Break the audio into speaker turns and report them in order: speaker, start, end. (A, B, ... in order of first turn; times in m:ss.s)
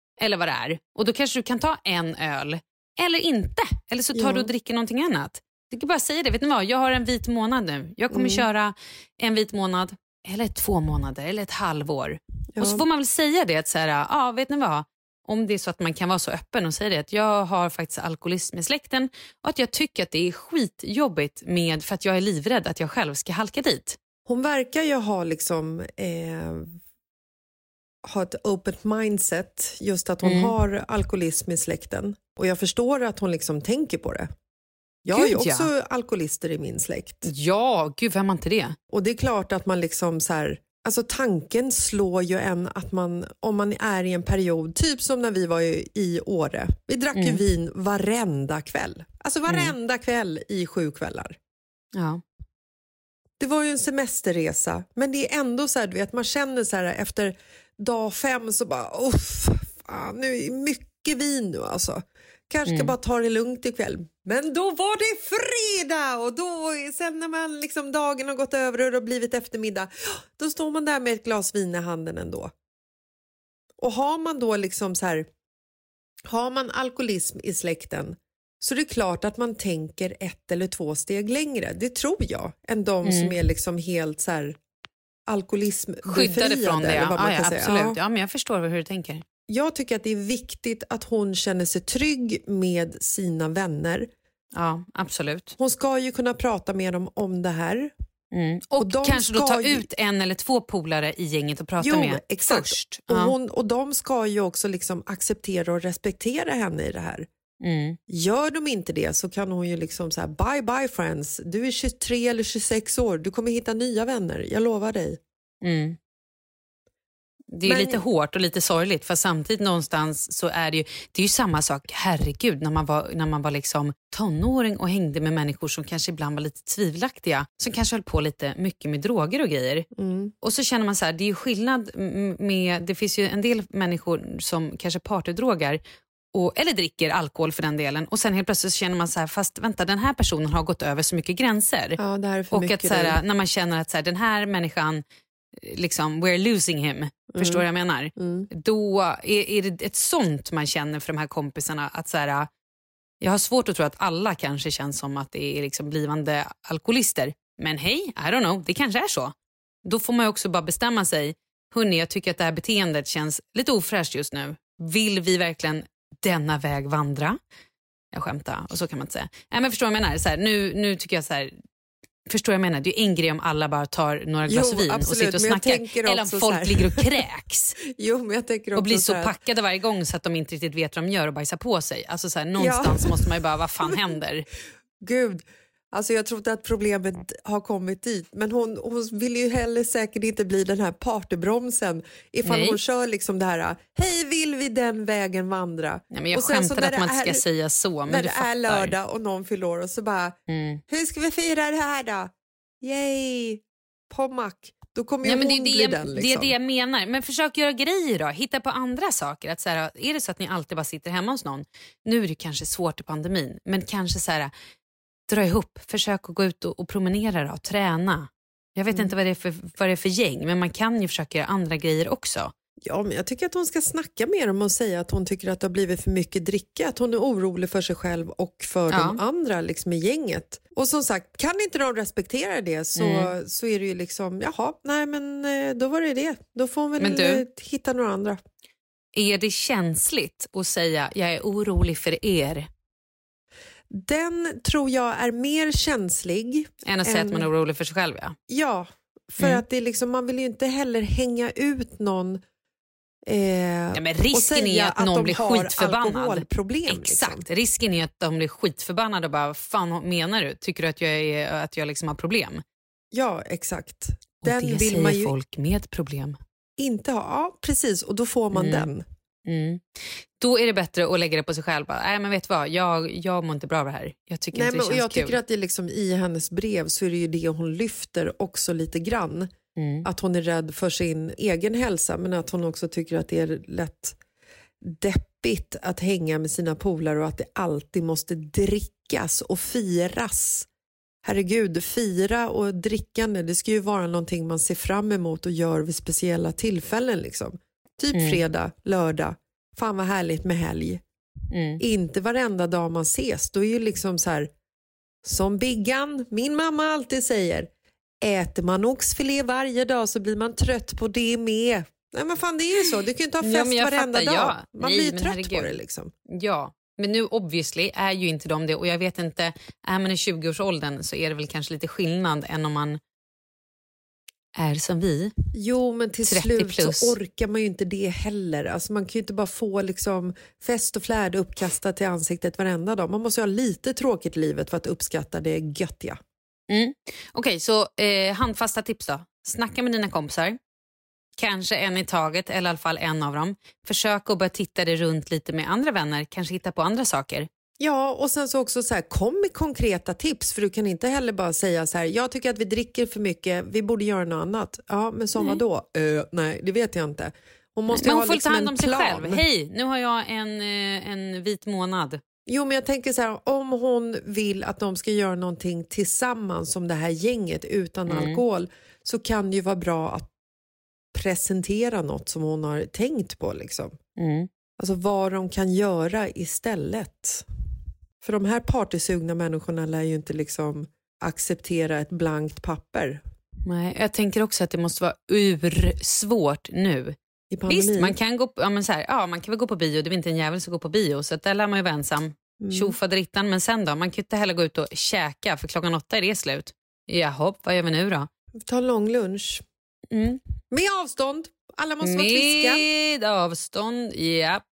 0:00.2-0:24.0 A
0:04.1-0:04.5 B
0:08.1-0:08.4 B
0:12.6-0:12.8 B
0:24.2-0:26.8 B
0:28.0-0:34.3 B
0:30.2-0:30.6 A
0:35.0-0:37.3 B
0:35.1-0:35.7 A
0:37.2-0:38.7 A
0:38.9-0:51.4 B
0:47.1-0:47.4 A
0:49.4-0:49.7 A
0:52.0-0:52.2 A
0:53.4-1:12.5 B
1:02.6-1:02.9 A
1:13.8-1:15.3 B
1:16.3-1:24.6 B
1:23.0-1:23.4 A
1:25.3-1:28.0 B
1:26.0-1:29.2 A
1:29.5-1:34.1 B
1:34.5-1:35.5 A
1:35.6-1:37.9 B
1:38.3-1:43.3 A
1:38.8-1:39.9 B
1:41.8-1:47.3 B
1:47.6-1:48.0 A
1:48.1-1:55.2 B
1:55.6-1:56.0 A
1:57.5-2:09.8 A
1:57.6-1:58.0 B
2:10.0-2:10.3 B
2:10.4-2:15.8 A
2:16.3-2:22.0 A
2:22.0-2:23.2 B
2:22.5-2:25.0 A
2:25.6-2:32.5 A
2:27.3-2:28.5 B
2:33.2-2:47.4 A
2:48.1-2:51.5 A
2:52.3-2:57.7 A
2:54.5-2:57.2 B
2:57.9-2:59.3 B
2:58.7-3:04.5 A
3:02.6-3:03.3 B
3:05.0-3:17.4 B
3:12.4-3:12.8 A
3:16.1-3:18.9 A
3:18.0-3:20.4 B
3:20.5-3:20.8 A
3:20.9-3:22.3 B
3:22.8-3:26.5 B
3:25.2-3:34.5 A
3:35.3-3:42.5 A
3:42.8-3:58.4 B
3:48.9-3:49.2 A
3:53.0-3:53.3 A
3:57.0-3:57.4 A
3:59.1-4:02.7 A
4:03.9-4:07.5 B
4:06.8-4:08.3 A
4:08.5-4:12.4 B
4:09.4-4:09.6 A
4:13.3-4:17.4 B
4:13.9-4:22.6 A
4:23.1-4:25.4 B
4:24.4-4:26.4 A
4:26.8-4:29.0 B
4:28.5-4:28.9 A
4:29.4-4:35.4 A
4:34.5-4:39.5 B
4:39.8-4:40.1 A
4:40.0-4:44.1 B
4:44.8-4:50.7 B
4:51.2-5:01.0 B
4:58.1-4:58.4 A
5:01.5-5:01.8 A
5:01.8-5:04.5 B
5:05.2-5:07.7 B
5:08.2-5:16.1 B
5:13.4-5:15.8 A
5:16.3-5:23.0 A
5:24.6-5:25.3 A
5:25.6-5:36.2 B
5:26.2-5:27.2 A
5:36.7-5:40.6 A
5:41.4-5:47.5 A
5:47.8-5:59.4 B
5:55.3-5:55.6 A
5:57.9-6:02.2 A
6:02.4-6:10.3 B
6:08.1-6:08.4 A
6:11.1-6:14.0 B
6:14.2-6:14.5 A
6:14.8-6:17.4 B
6:18.2-6:23.2 B
6:23.6-6:27.1 A
6:27.5-6:28.2 B
6:27.7-6:38.3 A
6:32.6-6:33.0 B
6:38.7-6:39.6 B
6:40.1-6:40.4 A
6:40.7-6:42.8 B
6:42.0-6:44.6 A